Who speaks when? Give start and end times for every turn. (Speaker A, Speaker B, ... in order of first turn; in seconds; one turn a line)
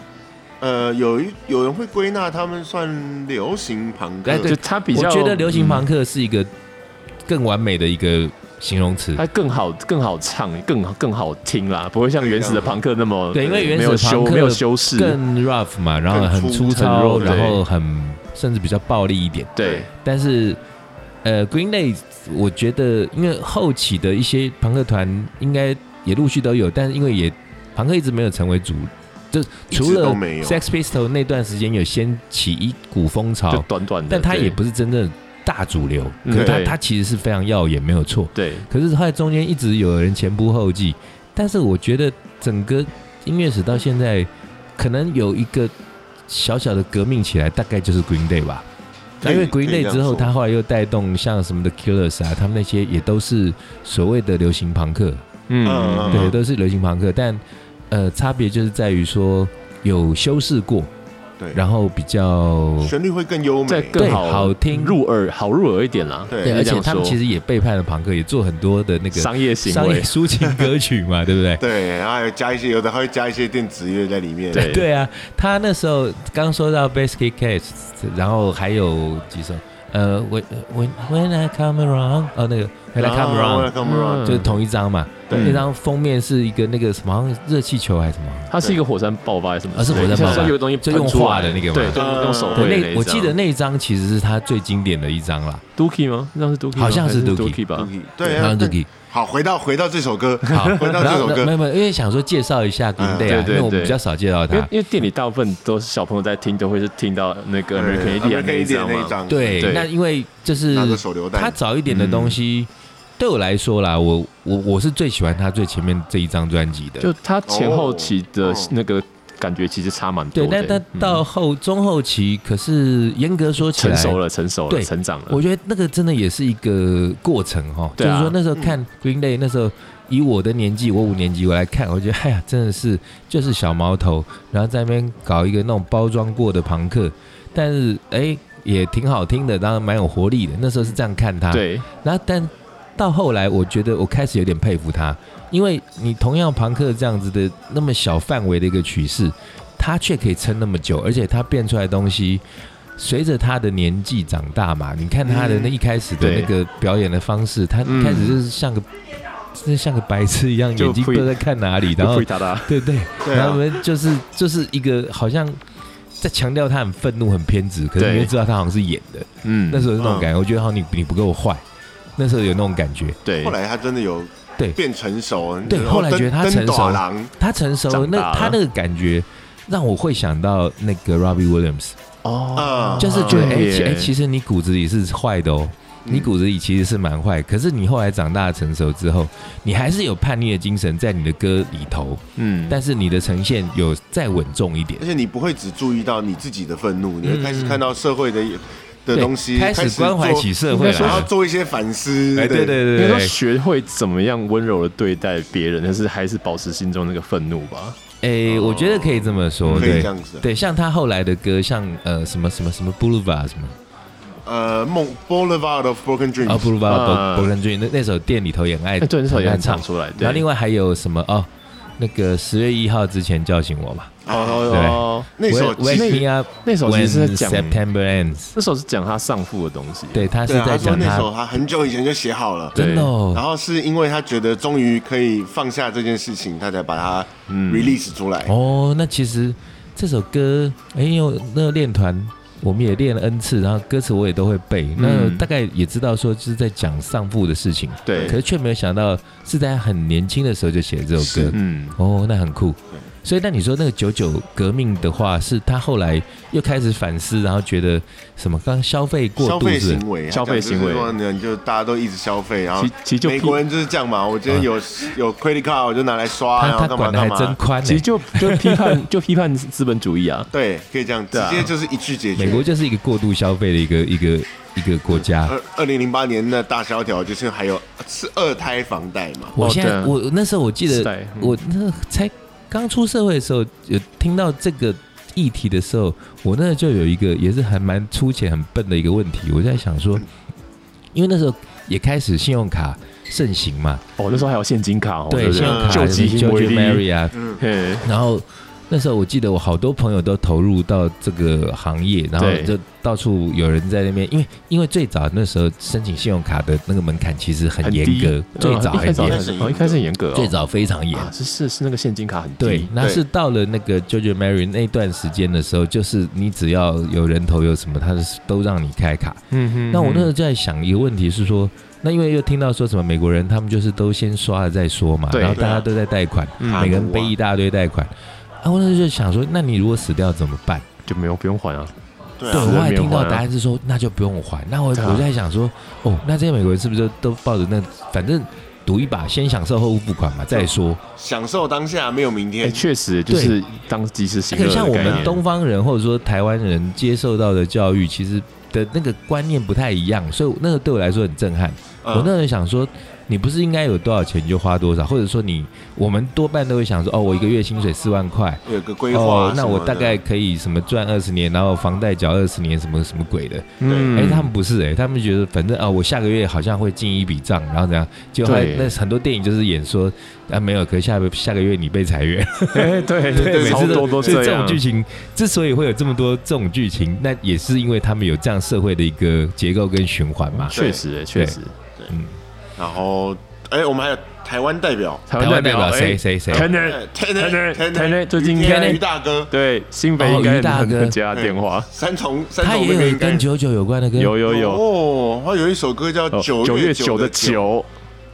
Speaker A: 0.6-4.5
Speaker B: 4.2-6.5
Speaker C: 4.5-5.9
Speaker B: 7.3-9.2
Speaker C: 9.2-15.2
Speaker A: 12.2-12.8
Speaker B: 13.3-20.6
Speaker A: 16.1-17.5
Speaker C: 16.6-17.6
Speaker C: 19.6-19.9
Speaker B: 21.2-45.7
Speaker A: 29.7-30.6
Speaker C: 33.5-34.6
Speaker C: 36.2-36.8
Speaker A: 36.3-36.6
Speaker C: 38.4-38.7
Speaker B: 46.3-48.7
Speaker A: 49.2-50.3
Speaker B: 49.2-55.2
Speaker C: 55.5-56.3
Speaker A: 55.6-56.4
Speaker B: 56.1-60.9
Speaker B: 61.5-62.9
Speaker A: 62.8-64.1
Speaker C: 63.7-67.2
Speaker B: 64.0-65.0
Speaker A: 66.3-66.6
Speaker B: 66.4-71.6
Speaker C: 69.1-70.1
Speaker A: 71.6-74.8
Speaker C: 74.5-74.9
Speaker B: 74.5-88.5
Speaker A: 83.0-84.6
Speaker C: 83.8-84.6
Speaker A: 85.3-85.7
Speaker C: 88.5-93.4
Speaker B: 89.7-92.0
Speaker A: 91.9-92.8
Speaker B: 92.5-95.6
Speaker C: 95.8-97.9
Speaker B: 96.7-97.6
Speaker A: 97.8-101.5
Speaker B: 98.2-98.9
Speaker B: 100.5-104.7
Speaker C: 100.6-100.9
Speaker A: 103.0-103.4
Speaker C: 103.2-104.0
Speaker C: 104.5-109.9
Speaker A: 107.7-109.7
Speaker B: 109.3-117.1
Speaker A: 110.7-111.6
Speaker C: 111.9-112.4
Speaker C: 117.0-121.2
Speaker A: 117.5-118.7
Speaker B: 120.3-152.4
Speaker C: 123.6-125.4
Speaker C: 128.0-128.4
Speaker C: 141.5-141.9
Speaker B: 153.0-158.9
Speaker A: 155.2-155.7
Speaker C: 156.2-156.5
Speaker C: 157.8-158.4
Speaker B: 159.5-165.6
Speaker C: 160.8-162.8
Speaker A: 163.2-163.6
Speaker B: 166.2-171.6
Speaker C: 168.0-168.3
Speaker C: 169.4-169.9
Speaker A: 170.0-170.3
Speaker B: 172.2-173.2
Speaker C: 173.2-173.6
Speaker A: 173.4-177.3
Speaker B: 175.7-182.0
Speaker C: 177.9-178.6
Speaker C: 182.2-184.1
Speaker A: 182.6-183.7
Speaker B: 183.0-195.0
Speaker A: 186.1-186.3
Speaker C: 192.4-192.8
Speaker A: 195.0-202.8
Speaker B: 197.2-197.8
Speaker B: 199.1-201.3
Speaker C: 200.7-201.3
Speaker B: 202.3-203.3
Speaker C: 202.9-208.0
Speaker B: 208.2-213.8
Speaker A: 208.5-210.4
Speaker C: 209.6-210.0
Speaker A: 214.5-216.7
Speaker B: 216.4-224.1
Speaker C: 216.8-217.5
Speaker C: 219.0-220.5
Speaker A: 224.2-226.2
Speaker C: 224.3-225.3
Speaker B: 224.7-228.6
Speaker C: 225.9-227.8
Speaker C: 228.6-230.3
Speaker B: 230.1-231.3
Speaker A: 230.5-238.5
Speaker B: 232.8-233.4
Speaker C: 232.8-233.1
Speaker C: 237.5-237.9
Speaker B: 238.4-260.0
Speaker C: 245.0-245.5
Speaker C: 248.1-248.4
Speaker A: 248.1-248.4
Speaker A: 251.2-251.6
Speaker C: 251.5-252.0
Speaker A: 259.4-267.6
Speaker C: 260.3-261.1
Speaker C: 262.8-263.6
Speaker B: 266.6-269.0
Speaker C: 267.8-270.5
Speaker A: 270.5-272.7
Speaker C: 271.3-271.7
Speaker B: 272.4-275.6
Speaker A: 275.4-279.6
Speaker B: 279.6-290.2
Speaker C: 279.6-280.2
Speaker C: 280.9-281.6
Speaker B: 291.1-294.0
Speaker C: 294.2-298.1
Speaker B: 295.3-297.4
Speaker A: 295.6-296.1
Speaker B: 298.0-309.4
Speaker C: 302.4-302.8
Speaker C: 307.8-310.5
Speaker A: 309.1-310.0
Speaker B: 310.3-311.3
Speaker C: 311.1-312.9
Speaker B: 312.6-328.1
Speaker A: 313.0-313.2
Speaker C: 319.5-320.3
Speaker C: 325.3-325.6
Speaker A: 325.6-325.9
Speaker C: 326.6-327.0
Speaker A: 326.7-327.3
Speaker B: 328.6-330.9
Speaker C: 331.1-331.9
Speaker A: 332.4-332.8
Speaker B: 332.5-341.0
Speaker C: 332.5-333.4
Speaker C: 335.0-335.3
Speaker A: 341.2-342.9
Speaker C: 342.6-345.4
Speaker B: 343.3-343.6
Speaker B: 344.5-380.8
Speaker A: 352.0-352.3
Speaker A: 358.6-360.2
Speaker C: 363.8-364.5
Speaker A: 363.8-364.1
Speaker C: 368.4-368.9
Speaker C: 372.7-374.8
Speaker A: 373.3-374.6
Speaker C: 380.6-381.7
Speaker A: 380.7-381.0
Speaker B: 382.1-382.4
Speaker A: 382.8-385.2
Speaker C: 385.3-391.9
Speaker B: 385.4-386.7
Speaker A: 386.5-389.5
Speaker B: 388.6-389.0
Speaker B: 390.2-391.2
Speaker A: 391.3-393.5
Speaker B: 392.6-394.4
Speaker C: 394.2-394.8
Speaker A: 394.4-397.6
Speaker C: 396.3-397.9